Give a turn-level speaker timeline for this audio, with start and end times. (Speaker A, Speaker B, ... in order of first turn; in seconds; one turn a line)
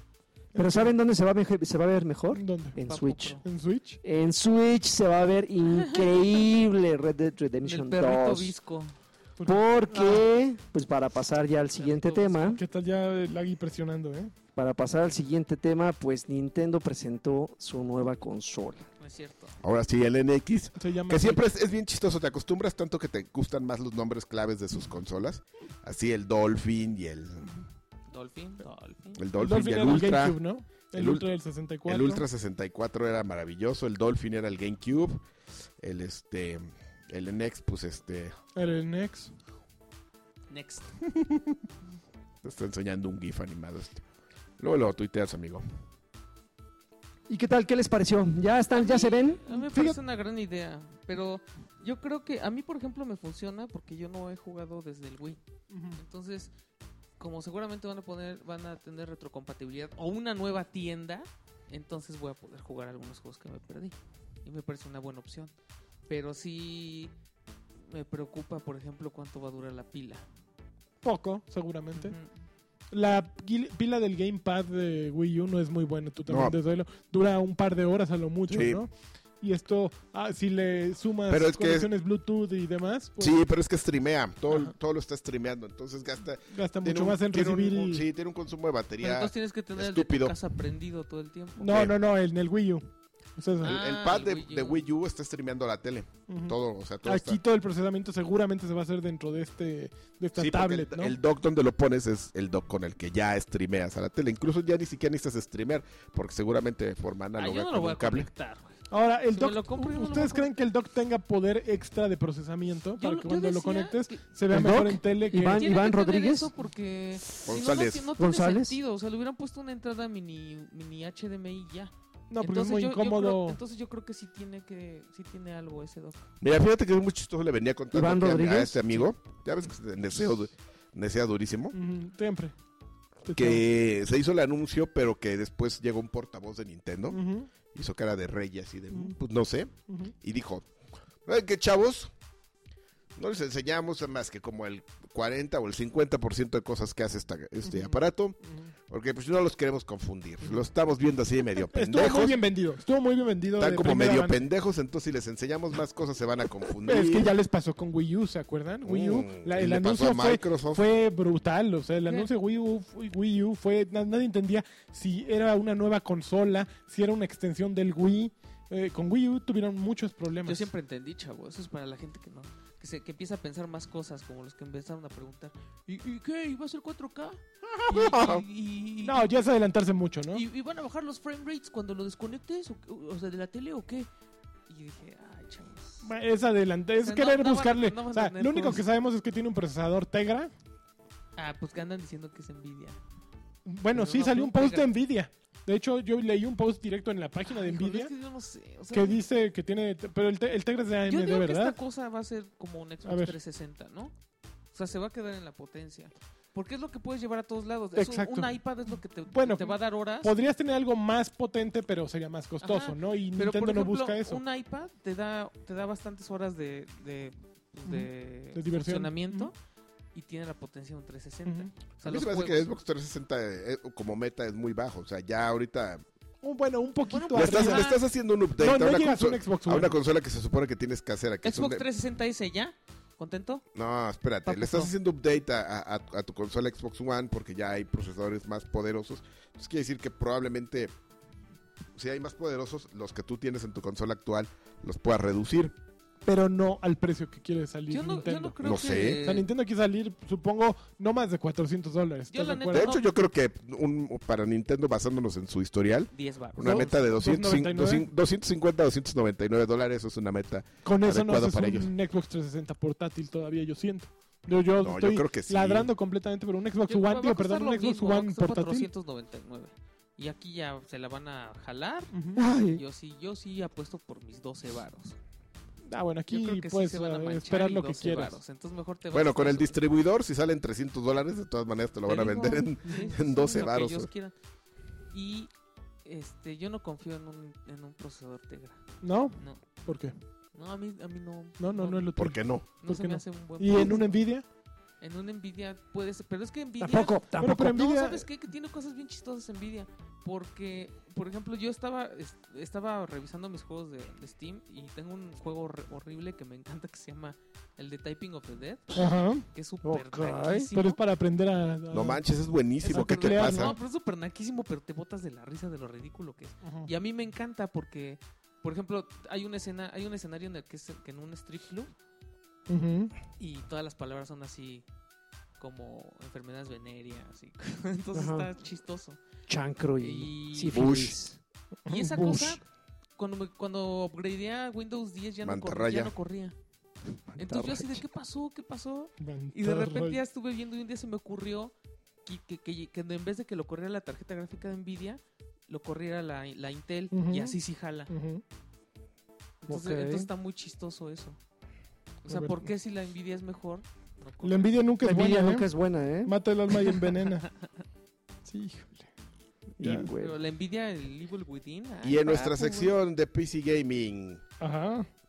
Speaker A: 0.5-0.9
Speaker B: 0.6-3.4
Speaker A: 2.3-2.8
Speaker C: 2.9-3.4
Speaker A: 3.4-4.0
Speaker B: 4.0-8.5
Speaker C: 5.7-6.1
Speaker C: 7.6-9.0
Speaker A: 9.4-10.2
Speaker B: 9.5-12.6
Speaker C: 11.8-12.6
Speaker A: 12.5-14.3
Speaker B: 14.6-18.9
Speaker C: 19.0-19.6
Speaker D: 19.6-27.5
Speaker A: 20.8-21.4
Speaker C: 28.1-29.2
Speaker D: 29.2-30.4
Speaker A: 29.4-32.2
Speaker D: 30.9-31.3
Speaker D: 31.9-35.2
Speaker D: 35.8-38.4
Speaker A: 38.6-39.3
Speaker C: 40.5-40.9
Speaker D: 42.4-44.0
Speaker D: 44.6-45.6
Speaker B: 47.3-49.4
Speaker C: 48.7-55.4
Speaker A: 49.5-50.0
Speaker A: 55.7-56.0
Speaker C: 56.0-56.5
Speaker C: 57.2-65.5
Speaker C: 66.1-67.1
Speaker C: 67.9-70.2
Speaker A: 71.0-72.2
Speaker C: 72.0-72.3
Speaker A: 72.9-78.9
Speaker D: 76.3-76.6
Speaker D: 78.5-78.8
Speaker A: 79.4-83.4
Speaker D: 81.3-81.9
Speaker D: 83.2-90.4
Speaker A: 86.5-88.1
Speaker C: 89.0-91.7
Speaker A: 91.6-92.8
Speaker D: 91.7-91.9
Speaker A: 93.4-93.8
Speaker D: 93.6-97.4
Speaker C: 93.6-94.9
Speaker A: 96.3-101.2
Speaker D: 100.4-108.3
Speaker C: 107.4-108.8
Speaker A: 108.9-115.7
Speaker C: 109.3-110.5
Speaker C: 113.0-114.2
Speaker B: 114.5-116.5
Speaker C: 115.3-126.3
Speaker D: 117.5-118.1
Speaker B: 118.2-118.8
Speaker A: 122.3-123.6
Speaker D: 126.4-131.8
Speaker B: 127.9-129.1
Speaker A: 131.7-132.5
Speaker A: 133.3-133.7
Speaker D: 133.3-137.2
Speaker A: 137.1-137.5
Speaker D: 137.7-140.7
Speaker A: 139.9-140.1
Speaker D: 141.2-142.1
Speaker D: 143.2-148.4
Speaker A: 147.7-147.9
Speaker D: 148.9-152.4
Speaker A: 151.6-154.4
Speaker D: 153.6-157.3
Speaker A: 156.8-170.7
Speaker D: 158.8-160.8
Speaker C: 170.4-179.3
Speaker D: 177.6-178.4
Speaker A: 179.0-180.4
Speaker C: 180.3-184.1
Speaker C: 184.7-186.1
Speaker A: 186.0-190.5
Speaker C: 187.0-188.8
Speaker C: 191.4-193.0
Speaker A: 193.7-198.1
Speaker C: 193.9-194.9
Speaker C: 197.5-199.2
Speaker A: 198.9-201.8
Speaker C: 201.1-204.1
Speaker A: 203.1-203.4
Speaker C: 204.7-210.3
Speaker A: 207.9-208.5
Speaker A: 209.3-214.4
Speaker C: 212.6-219.6
Speaker A: 217.9-219.5
Speaker C: 220.1-222.7
Speaker A: 221.5-221.7
Speaker D: 222.0-226.0
Speaker A: 226.4-227.9
Speaker C: 227.1-228.0
Speaker D: 227.3-231.8
Speaker A: 228.6-229.9
Speaker C: 231.4-233.6
Speaker D: 233.8-240.9
Speaker C: 234.4-234.9
Speaker D: 242.0-245.8
Speaker A: 246.2-252.9
Speaker C: 247.9-249.5
Speaker D: 248.6-249.2
Speaker C: 252.3-253.1
Speaker D: 252.7-261.9
Speaker C: 256.1-257.0
Speaker A: 256.6-258.1
Speaker A: 260.8-268.9
Speaker D: 264.8-265.9
Speaker C: 266.9-272.1
Speaker A: 272.1-272.4
Speaker B: 272.4-272.8
Speaker C: 272.7-275.2
Speaker A: 275.9-278.4
Speaker C: 276.3-279.8
Speaker D: 279.1-284.1
Speaker C: 282.1-284.3
Speaker C: 285.1-285.5
Speaker C: 286.1-288.8
Speaker A: 289.0-290.1
Speaker C: 289.4-289.6
Speaker C: 290.5-292.1
Speaker A: 291.6-294.4
Speaker D: 292.2-292.7
Speaker C: 292.8-294.2
Speaker C: 295.0-308.9
Speaker B: 296.8-297.9
Speaker A: 296.9-298.3
Speaker A: 308.9-309.5
Speaker C: 309.5-311.0
Speaker B: 309.8-310.7
Speaker A: 310.7-312.2
Speaker D: 311.9-313.8
Speaker C: 312.8-321.9
Speaker A: 312.9-313.8
Speaker A: 316.6-316.9
Speaker A: 322.7-323.1
Speaker C: 323.4-324.9
Speaker C: 325.6-329.2
Speaker B: 328.1-328.5
Speaker B: 329.5-331.4
Speaker C: 330.0-330.9
Speaker D: 330.7-331.2
Speaker A: 331.9-332.4
Speaker C: 331.9-332.6
Speaker B: 332.2-332.6
Speaker C: 333.2-336.6
Speaker D: 335.4-336.1
Speaker C: 337.4-341.7
Speaker B: 337.5-337.9
Speaker A: 339.2-340.2
Speaker C: 342.2-348.1
Speaker A: 347.1-347.6
Speaker A: 348.1-348.4
Speaker C: 349.6-351.4
Speaker B: 349.7-350.3
Speaker C: 352.2-354.7
Speaker A: 352.3-352.7
Speaker A: 354.4-355.7
Speaker B: 355.0-356.4
Speaker A: 356.2-357.5
Speaker C: 357.4-357.7
Speaker A: 358.4-359.1
Speaker A: 359.8-360.1
Speaker B: 359.8-360.4
Speaker C: 360.1-362.9
Speaker D: 362.0-364.4
Speaker A: 364.6-365.1